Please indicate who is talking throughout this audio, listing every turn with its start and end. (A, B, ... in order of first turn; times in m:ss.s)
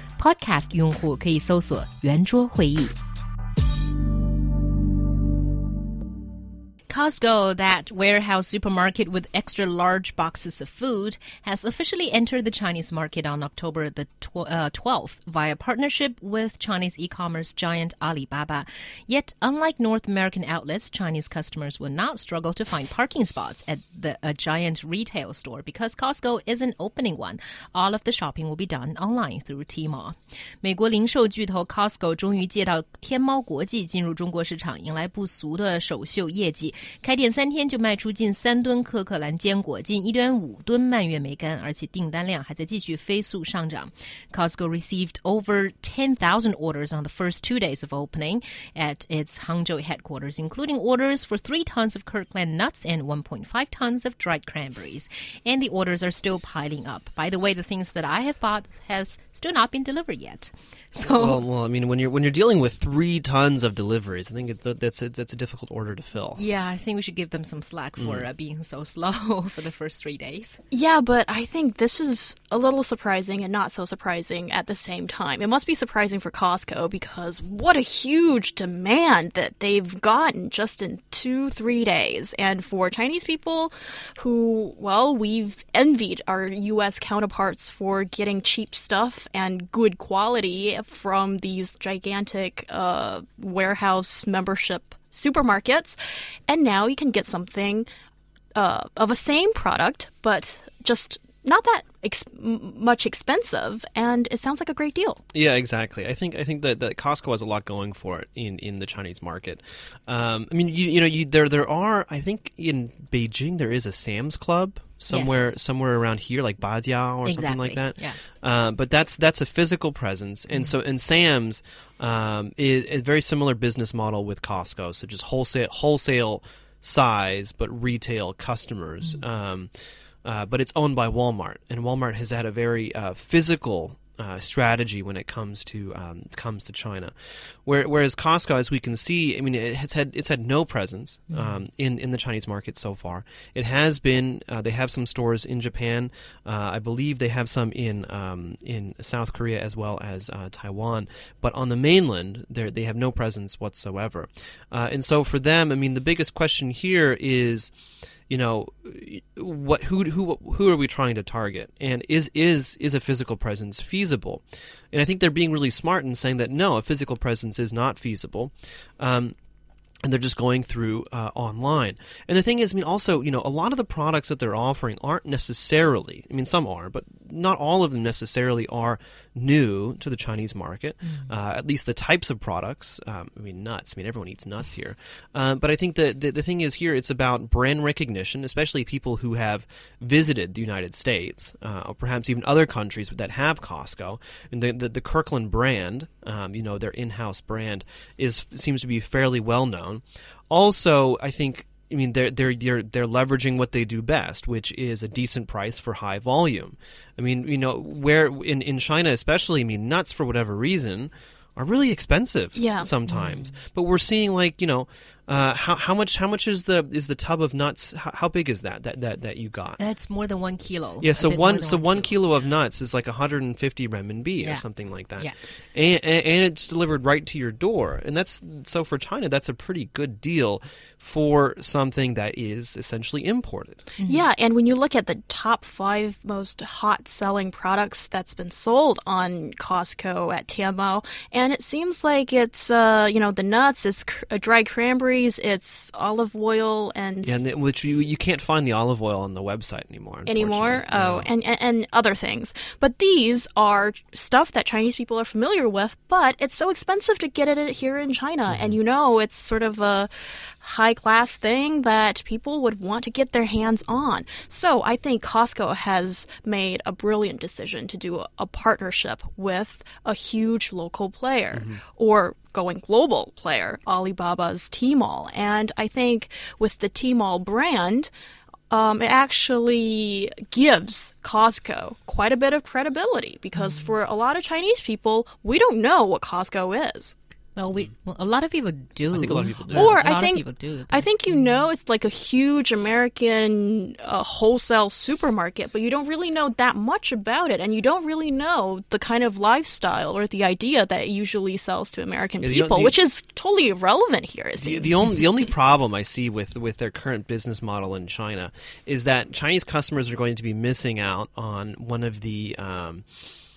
0:00.2-0:03.0 A
0:06.9-1:01.4 A
1:01.0-1:06.4 B
1:06.4-1:10.6 A
1:08.0-1:08.3 B
1:10.7-1:36.0 C
1:36.5-1:37.8 C
1:38.6-1:45.2 C
1:45.3-2:09.7 B
1:55.1-1:55.6 A
1:57.2-1:58.2 A
2:00.5-2:00.7 A
2:10.2-2:17.1 B
2:17.6-2:37.7 B
2:21.3-2:21.6 A
2:38.3-2:49.4 B
2:50.0-3:39.8 B
3:32.5-3:32.9 C
3:33.0-3:33.6 A
3:39.8-3:42.3 A
3:41.0-3:53.9 B
3:54.0-3:54.2 A
3:54.0-4:07.4 C
4:07.2-4:11.3 B
4:10.2-4:20.1 C
4:18.5-4:18.8 B
4:20.6-4:38.1 C
4:31.5-4:31.8 B
4:38.7-4:47.1 C
4:43.5-4:43.9 A
4:47.6-4:51.6 A
4:49.1-4:50.0 B
4:49.7-5:05.1 C
5:02.4-5:02.9 B
5:04.6-5:13.0 B